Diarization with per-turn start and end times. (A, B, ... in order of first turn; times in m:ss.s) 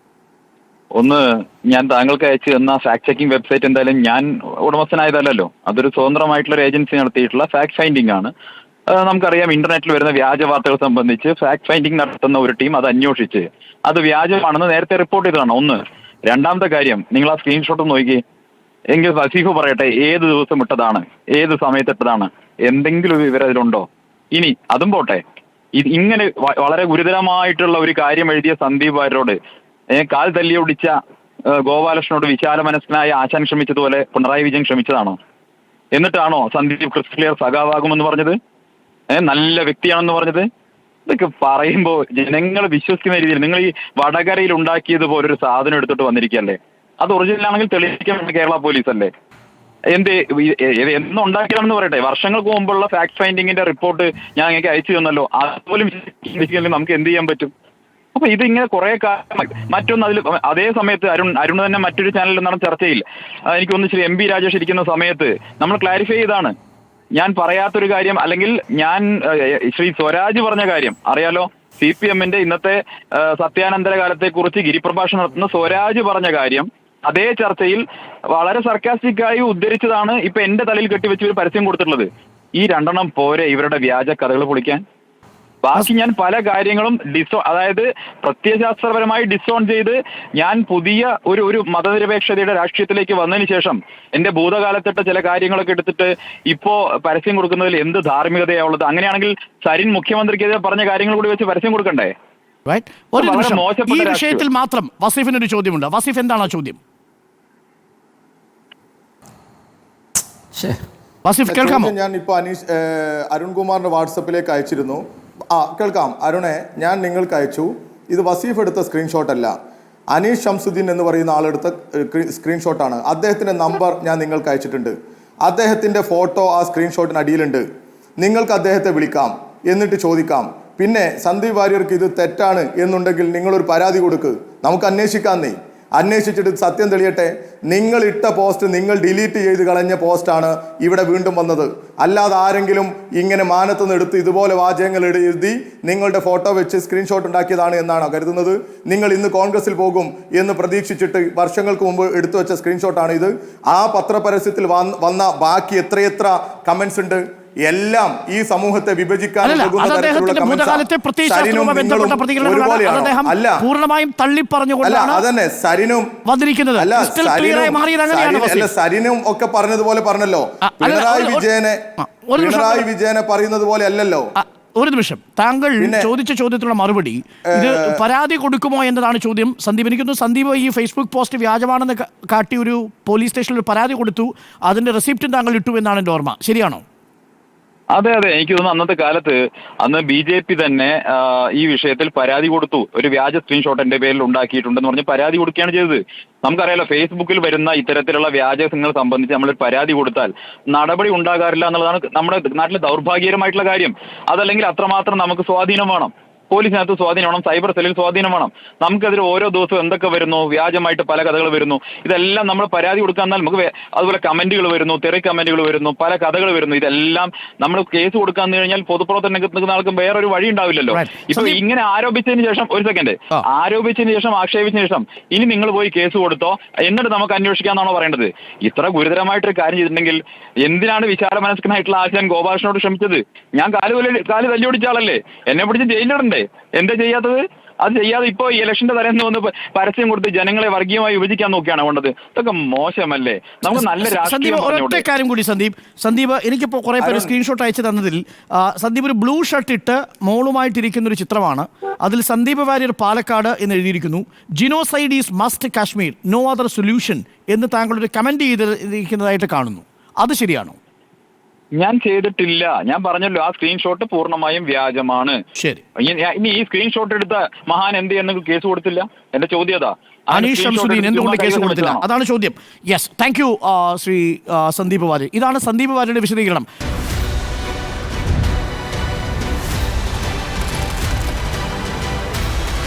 0:01.0-0:08.3 A
0:08.9-0:18.2 A
0:18.9-0:25.2 A
0:25.7-0:29.4 A
0:29.9-0:30.9 A
0:31.5-0:35.2 A
0:35.9-0:38.4 A
0:39.1-0:40.5 A
0:41.1-0:49.1 A
0:49.9-0:57.5 A
0:58.1-1:06.5 A
1:07.2-1:24.8 A
1:25.6-1:42.1 A
1:42.6-1:46.8 B
1:43.2-1:44.4 A
1:51.2-1:51.9 B
1:51.5-1:55.0 C
1:55.5-1:59.5 C
2:00.1-2:04.9 C
2:05.4-2:07.6 C
2:08.2-2:43.6 C
2:39.4-2:45.2 B
2:44.8-2:46.1 C
2:46.2-2:48.7 B
2:46.8-2:51.8 C
2:50.6-2:51.4 B
2:52.0-2:52.8 B
2:52.3-2:54.3 C
2:54.4-3:06.8 B
2:55.8-2:56.1 C
2:57.5-2:58.0 C
3:07.9-4:05.0 A
3:40.9-3:41.6 B
4:03.7-4:20.8 B
4:07.0-4:07.3 C
4:21.8-4:25.4 A
4:25.6-4:25.8 B
4:26.0-4:32.0 A
4:30.3-4:36.7 B